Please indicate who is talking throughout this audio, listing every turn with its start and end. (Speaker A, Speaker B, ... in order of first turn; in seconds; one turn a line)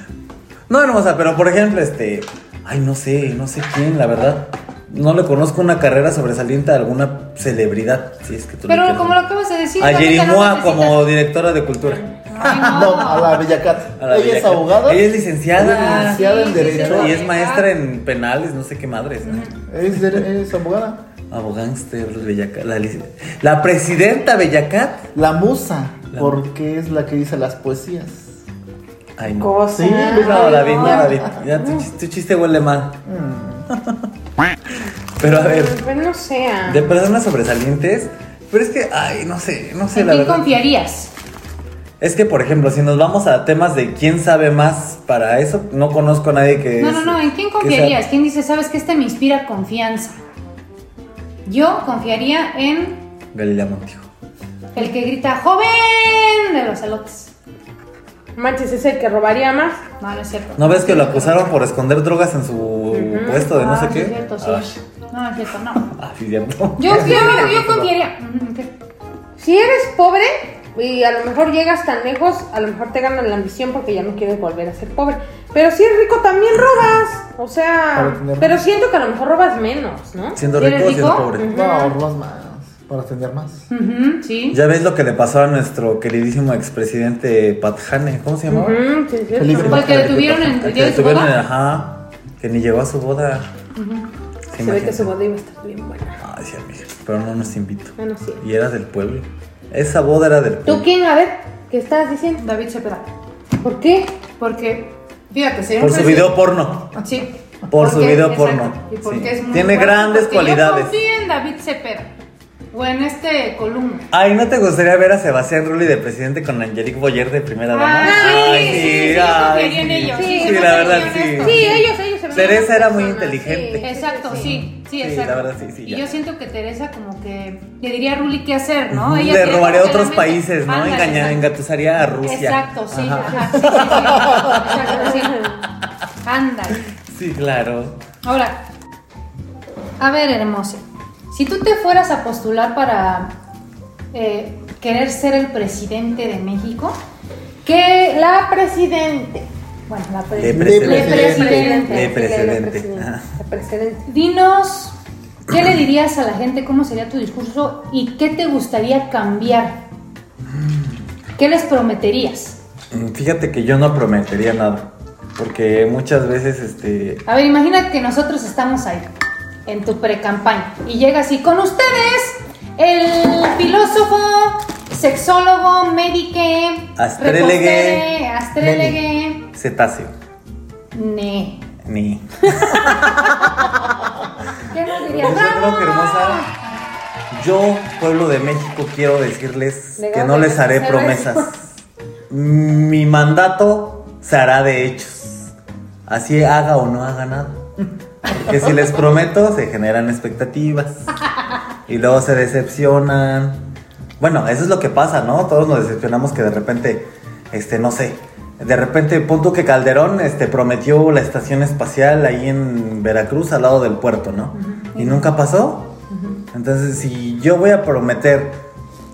Speaker A: 0.7-9.2
Speaker B: 8.7-11.1
Speaker A: 9.8-13.4
Speaker B: 12.3-13.4
Speaker C: 12.5-17.2
Speaker A: 14.0-19.5
Speaker B: 15.6-17.7
Speaker B: 19.2-19.5
Speaker C: 19.7-21.0
Speaker A: 21.3-25.1
Speaker C: 25.1-28.4
Speaker A: 26.1-26.4
Speaker A: 29.2-33.0
Speaker D: 29.4-31.9
Speaker C: 29.7-30.7
Speaker B: 30.7-31.0
Speaker C: 33.1-33.7
Speaker A: 33.7-34.0
Speaker A: 35.2-35.8
Speaker D: 35.2-37.0
Speaker A: 36.7-40.5
Speaker B: 39.9-41.1
Speaker A: 42.0-48.0
Speaker B: 46.8-50.2
Speaker B: 51.5-53.0
Speaker A: 53.3-54.1
Speaker B: 54.8-57.3
Speaker D: 58.4-59.8
Speaker B: 60.0-61.5
Speaker A: 60.6-64.8
Speaker D: 62.9-63.5
Speaker B: 63.4-65.9
Speaker A: 65.8-67.9
Speaker B: 66.8-68.7
Speaker C: 66.9-67.5
Speaker D: 69.4-80.4
Speaker C: 77.9-78.6
Speaker A: 80.4-81.5
Speaker B: 80.5-81.3
Speaker D: 81.4-82.0
Speaker C: 81.5-83.7
Speaker B: 83.7-84.6
Speaker A: 84.5-88.8
Speaker D: 88.5-89.9
Speaker C: 89.4-89.9
Speaker A: 89.5-93.5
Speaker B: 89.6-91.3
Speaker B: 93.8-94.1
Speaker A: 94.5-95.1
Speaker D: 94.6-96.2
Speaker A: 96.2-100.9
Speaker D: 98.0-98.4
Speaker D: 100.7-102.4
Speaker B: 102.4-103.1
Speaker D: 103.6-104.2
Speaker B: 104.4-106.3
Speaker A: 105.8-107.0
Speaker B: 107.0-112.1
Speaker A: 107.7-111.0
Speaker B: 112.7-114.0
Speaker A: 114.1-126.1
Speaker B: 117.7-121.9
Speaker D: 118.0-119.5
Speaker D: 120.1-124.6
Speaker B: 123.8-131.4
Speaker A: 128.9-135.1
Speaker B: 132.2-135.6
Speaker D: 134.8-135.6
Speaker B: 136.2-136.9
Speaker A: 137.1-138.0
Speaker B: 138.2-138.6
Speaker B: 140.0-143.3
Speaker B: 144.1-147.0
Speaker B: 147.6-148.2
Speaker D: 148.1-149.5
Speaker B: 149.9-152.1
Speaker A: 150.4-153.2
Speaker C: 150.5-151.7
Speaker D: 150.8-154.1
Speaker B: 154.1-154.9
Speaker B: 155.5-159.8
Speaker B: 161.4-162.6
Speaker A: 162.9-167.2
Speaker B: 167.3-169.1
Speaker B: 169.7-179.5
Speaker A: 177.0-178.1
Speaker C: 178.6-179.0
Speaker A: 179.5-180.1
Speaker B: 180.9-181.6
Speaker A: 181.8-183.7
Speaker B: 184.7-186.7
Speaker A: 185.1-186.5
Speaker A: 187.3-191.7
Speaker D: 190.0-191.5
Speaker A: 192.3-195.5
Speaker A: 196.1-197.7
Speaker A: 198.3-201.1
Speaker A: 201.9-203.6
Speaker A: 204.2-215.9
Speaker B: 214.6-215.4
Speaker B: 216.1-216.4
Speaker A: 216.5-218.6